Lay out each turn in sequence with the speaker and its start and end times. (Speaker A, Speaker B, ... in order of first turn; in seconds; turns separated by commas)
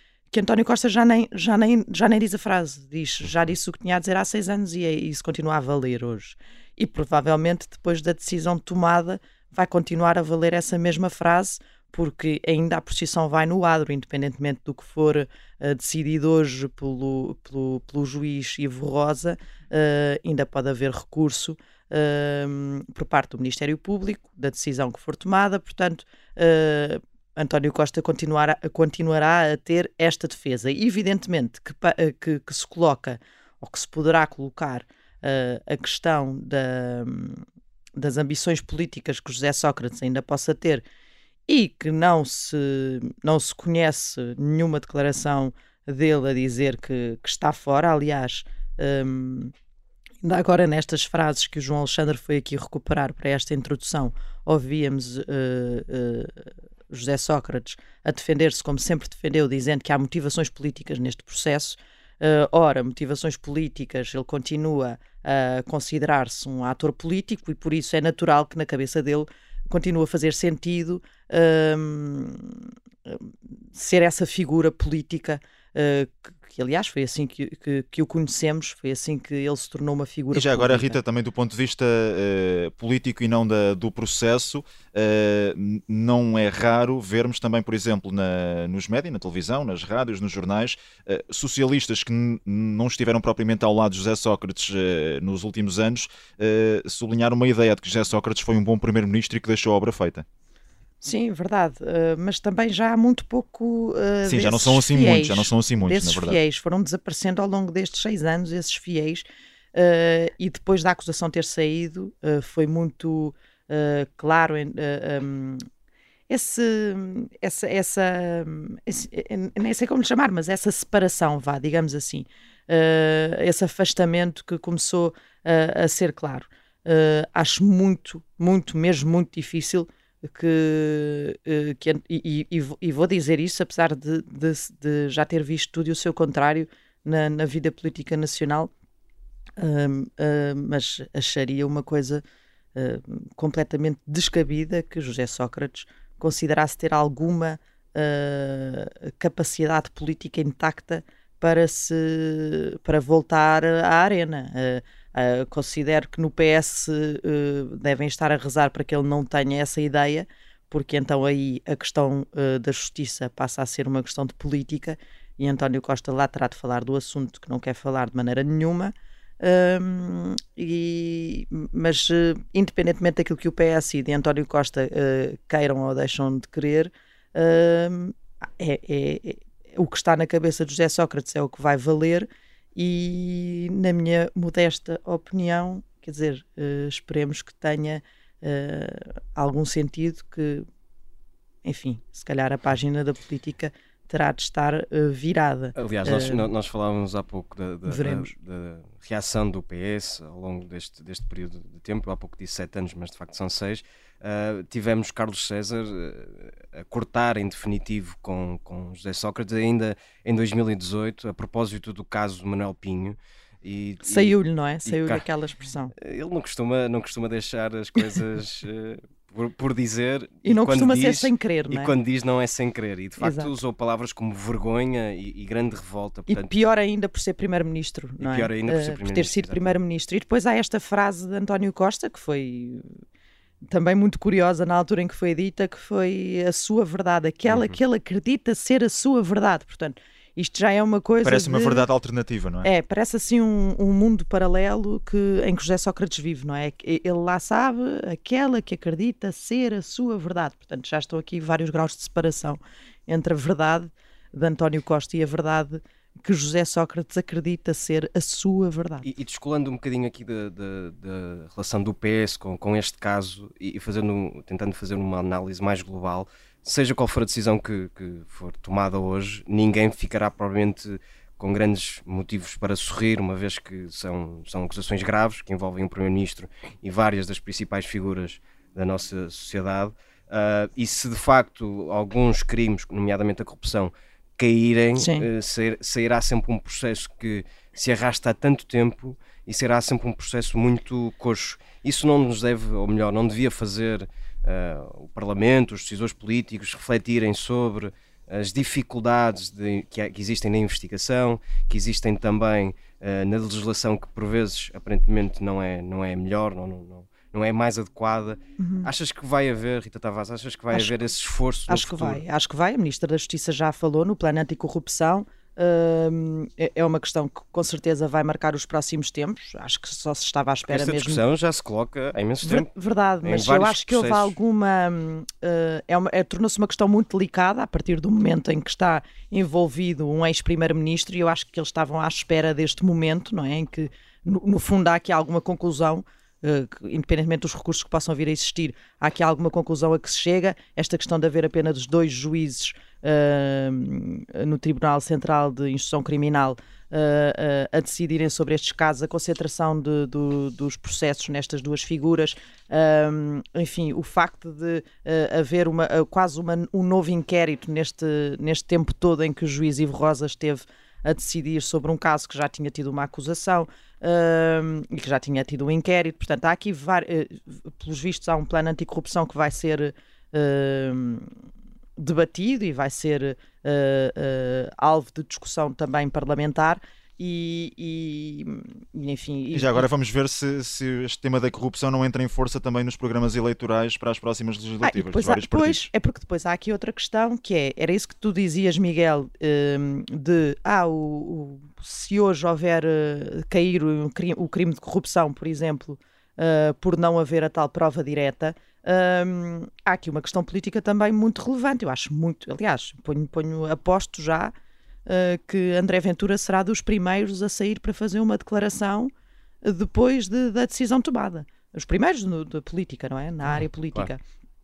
Speaker A: 0.3-37.5, Speaker A: 38.0-40.8, Speaker A: 41.5-49.5, Speaker A: 50.2-81.0, Speaker B: 80.3-100.2, Speaker A: 101.0-115.7, Speaker B: 104.3-106.4, Speaker A: 116.3-138.7, Speaker A: 139.6-142.2, Speaker A: 142.8-190.7, Speaker A: 191.6-196.5, Speaker C: 195.8-215.2, Speaker A: 197.9-198.3, Speaker A: 214.0-215.9, Speaker C: 215.9-226.5, Speaker A: 220.4-221.9, Speaker A: 223.2-223.5, Speaker A: 226.3-232.9, Speaker C: 228.2-229.8, Speaker A: 233.7-241.8, Speaker C: 237.5-237.8, Speaker B: 241.2-242.7, Speaker A: 242.6-259.1, Speaker C: 259.0-312.2, Speaker A: 285.0-285.3, Speaker A: 308.6-308.9, Speaker A: 311.7-321.2, Speaker C: 320.7-322.7, Speaker A: 322.4-371.3, Speaker C: 323.2-324.4, Speaker A: 372.0-379.9, Speaker B: 379.5-385.9, Speaker A: 384.8-404.5, Speaker A: 405.1-409.1, Speaker A: 409.6-414.2